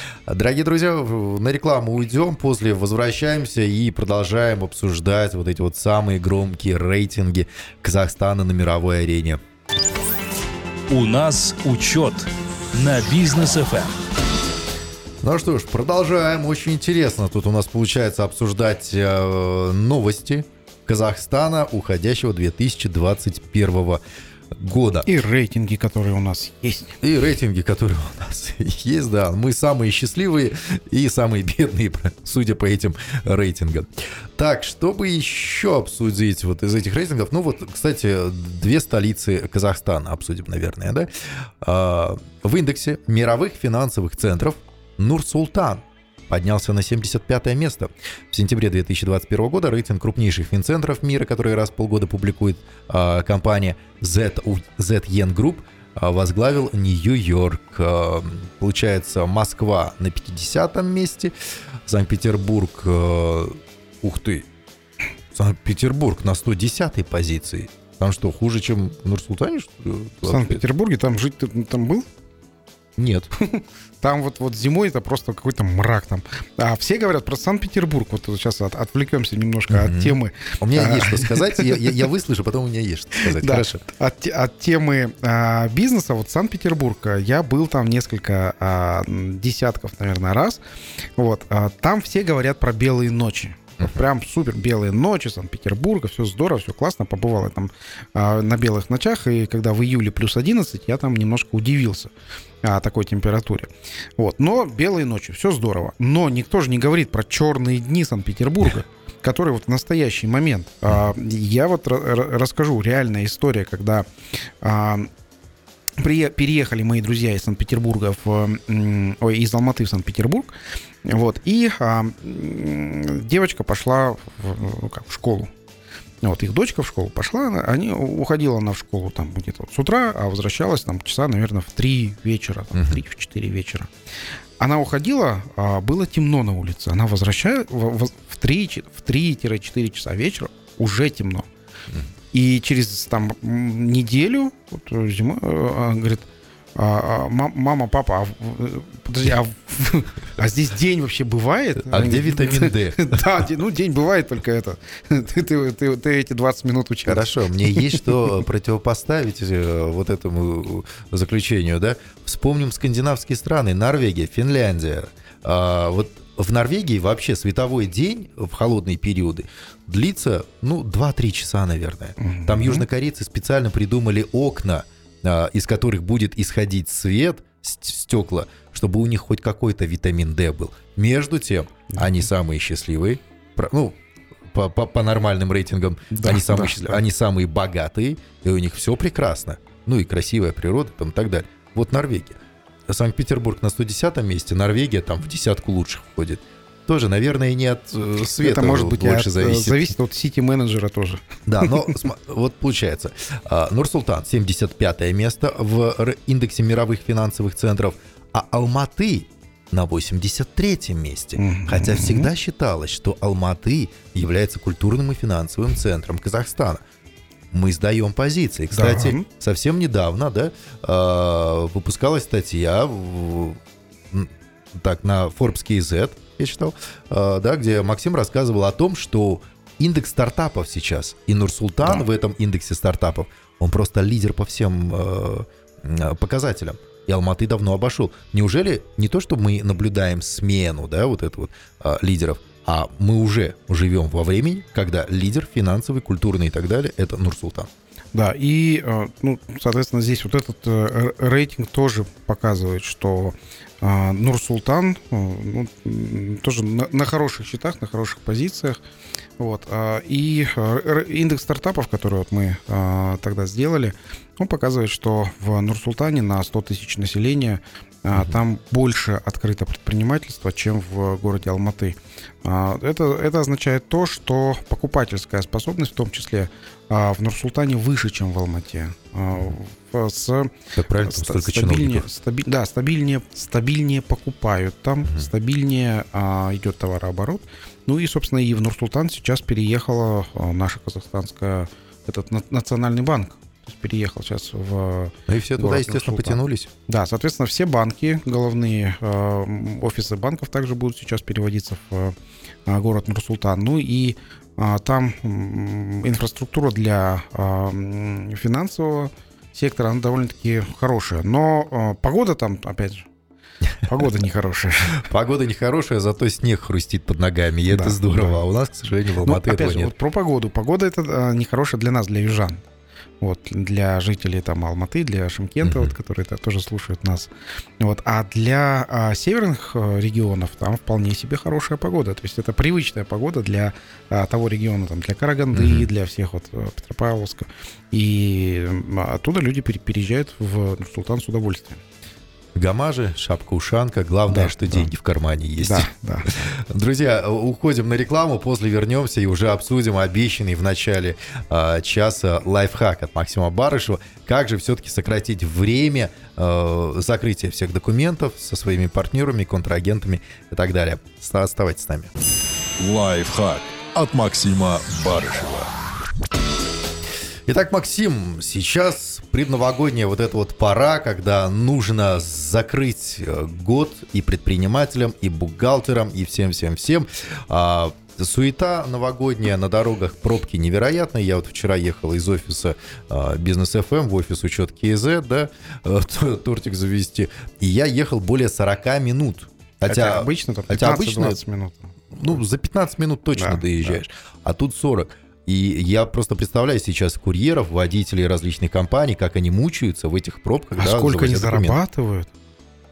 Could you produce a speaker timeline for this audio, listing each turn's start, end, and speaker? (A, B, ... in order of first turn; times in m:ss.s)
0:00.3-0:09.4 A
0:10.9-0:14.0 B
0:15.2-0:24.0 A
0:24.6-0:25.1 A
0:25.1-0:27.0 C
0:27.0-0:41.1 A
0:41.6-1:01.3 A
1:01.9-1:04.5 A
1:05.3-1:10.6 A
1:10.2-1:12.1 C
1:13.0-1:13.3 A
1:13.4-1:21.9 C
1:19.7-1:23.8 A
1:23.2-1:30.6 C
1:31.2-1:42.1 C
1:42.6-1:54.1 C
1:54.6-1:55.1 C
1:56.0-2:05.5 C
2:06.2-2:13.9 C
2:14.6-2:21.5 C
2:22.3-2:38.2 C
2:31.9-2:33.4 A
2:37.1-3:04.0 A
2:52.2-2:52.8 C
3:04.5-3:19.9 A
3:06.1-3:07.0 C
3:18.4-3:21.8 C
3:21.5-3:36.8 A
3:31.4-3:32.3 C
3:37.5-3:43.6 A
3:38.7-3:39.3 C
3:44.1-4:07.7 A
4:08.1-4:18.8 C
4:19.4-4:40.5 C
4:40.8-4:42.1 A
4:41.0-5:02.2 C
4:55.3-4:56.7 A
5:02.7-5:13.1 C
5:13.8-5:15.0 C
5:15.0-5:19.9 A
5:17.7-5:18.4 C
5:19.2-5:22.6 C
5:23.2-5:41.8 C
5:25.6-5:25.9 A
5:35.5-5:35.9 A
5:42.6-6:02.1 A
5:44.3-5:44.9 C
5:45.6-5:46.5 C
6:02.8-6:05.6 A
6:04.0-6:05.4 B
6:07.5-6:31.4 A
6:29.9-6:32.0 C
6:32.1-6:41.8 A
6:33.4-6:34.0 C
6:40.8-6:42.3 C